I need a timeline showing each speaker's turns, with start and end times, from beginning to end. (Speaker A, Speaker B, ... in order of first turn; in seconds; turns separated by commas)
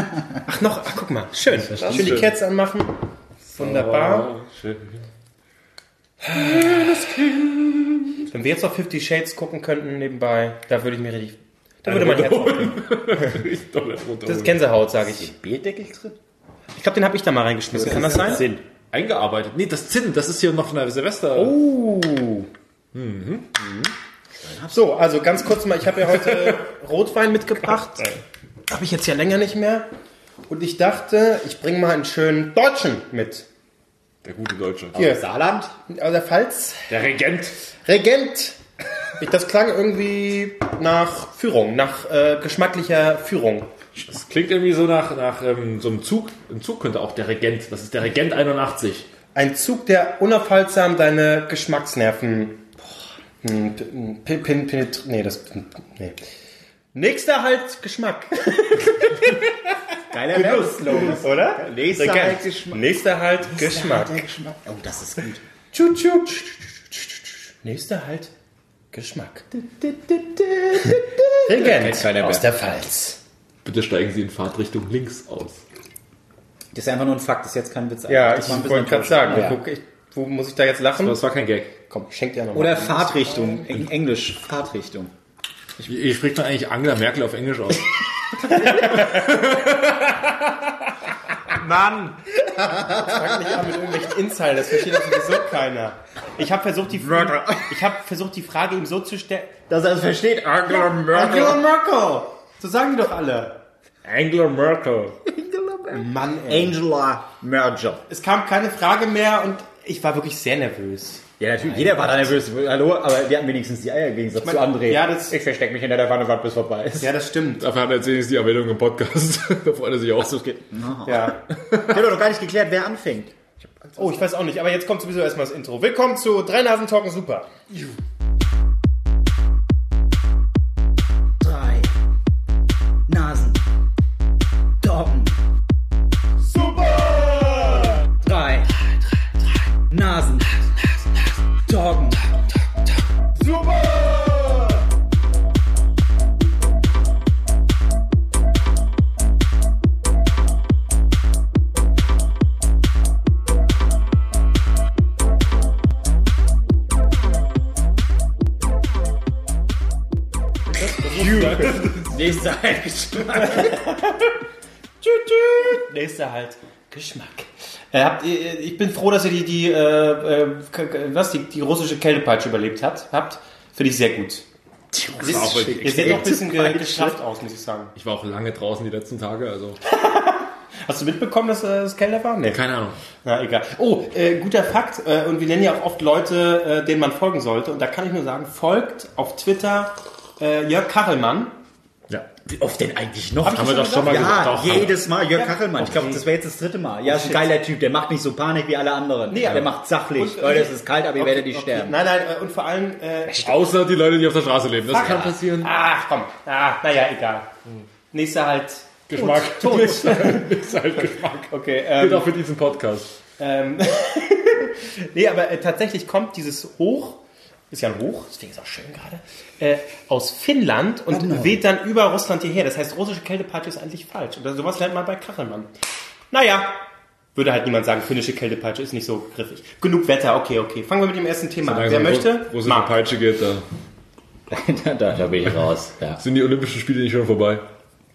Speaker A: 0.5-3.0, Speaker B: 1.6-2.3, Speaker B: 3.5-5.0, Speaker A: 3.6-4.3, Speaker B: 6.3-8.0, Speaker A: 6.3-6.9, Speaker A: 8.3-12.8, Speaker B: 11.8-14.5, Speaker A: 14.2-15.3, Speaker C: 15.0-16.2, Speaker A: 16.7-18.5, Speaker C: 17.7-18.6, Speaker B: 18.9-21.5, Speaker A: 21.4-22.5, Speaker B: 22.9-23.6, Speaker C: 24.4-24.8, Speaker A: 24.7-29.9, Speaker A: 30.5-33.4, Speaker B: 34.2-34.9, Speaker C: 34.9-35.7, Speaker A: 34.9-35.2, Speaker A: 35.9-36.9, Speaker B: 36.9-37.5, Speaker A: 37.9-38.6, Speaker A: 39.2-43.7, Speaker B: 44.0-49.1, Speaker A: 49.3-52.7, Speaker A: 53.4-56.2, Speaker A: 56.9-59.8, Speaker C: 60.1-62.8, Speaker A: 60.3-64.2, Speaker C: 63.5-65.4, Speaker A: 65.7-68.3, Speaker A: 68.9-69.5, Speaker C: 69.7-72.4, Speaker A: 70.7-73.2, Speaker B: 73.6-75.6, Speaker C: 76.7-79.6, Speaker A: 78.1-81.2, Speaker B: 81.0-81.7, Speaker A: 81.9-83.7, Speaker C: 82.5-85.1, Speaker B: 85.8-87.9, Speaker A: 88.4-89.3, Speaker B: 88.8-90.9, Speaker C: 91.5-93.6, Speaker A: 92.7-99.6, Speaker C: 96.9-97.8, Speaker C: 99.7-101.6, Speaker A: 100.7-103.6, Speaker B: 104.0-105.2, Speaker C: 105.2-108.0, Speaker A: 105.9-106.8, Speaker A: 108.1-111.2, Speaker C: 111.4-117.1, Speaker A: 114.4-115.3, Speaker A: 117.0-117.6, Speaker B: 117.6-120.4, Speaker C: 120.2-121.4, Speaker A: 121.0-121.4, Speaker B: 121.5-122.0, Speaker C: 121.9-124.2, Speaker A: 124.0-127.5, Speaker C: 131.4-131.9, Speaker C: 133.1-133.6, Speaker C: 134.8-135.4, Speaker C: 136.6-138.7, Speaker C: 139.9-140.5, Speaker C: 141.7-142.2, Speaker C: 143.4-144.8, Speaker A: 160.7-161.9, Speaker B: 161.1-162.1, Speaker C: 161.6-163.9, Speaker A: 163.5-164.0, Speaker A: 165.0-174.4, Speaker C: 174.9-177.2, Speaker B: 175.1-176.4, Speaker A: 175.2-177.9, Speaker B: 177.9-179.8, Speaker A: 179.8-182.6, Speaker B: 182.5-183.0, Speaker A: 183.2-191.5, Speaker C: 192.4-201.9, Speaker A: 193.4-194.8, Speaker B: 193.4-194.9, Speaker A: 195.4-196.2, Speaker A: 197.0-197.5, Speaker A: 199.3-203.7, Speaker B: 203.3-205.7, Speaker A: 204.9-207.5, Speaker A: 208.1-210.6, Speaker B: 209.1-213.1, Speaker A: 211.5-212.3, Speaker A: 213.4-217.2, Speaker A: 217.7-225.7, Speaker C: 221.1-221.6, Speaker A: 226.3-226.8, Speaker A: 227.3-232.9, Speaker B: 231.6-233.6, Speaker C: 234.5-236.2, Speaker B: 236.2-237.7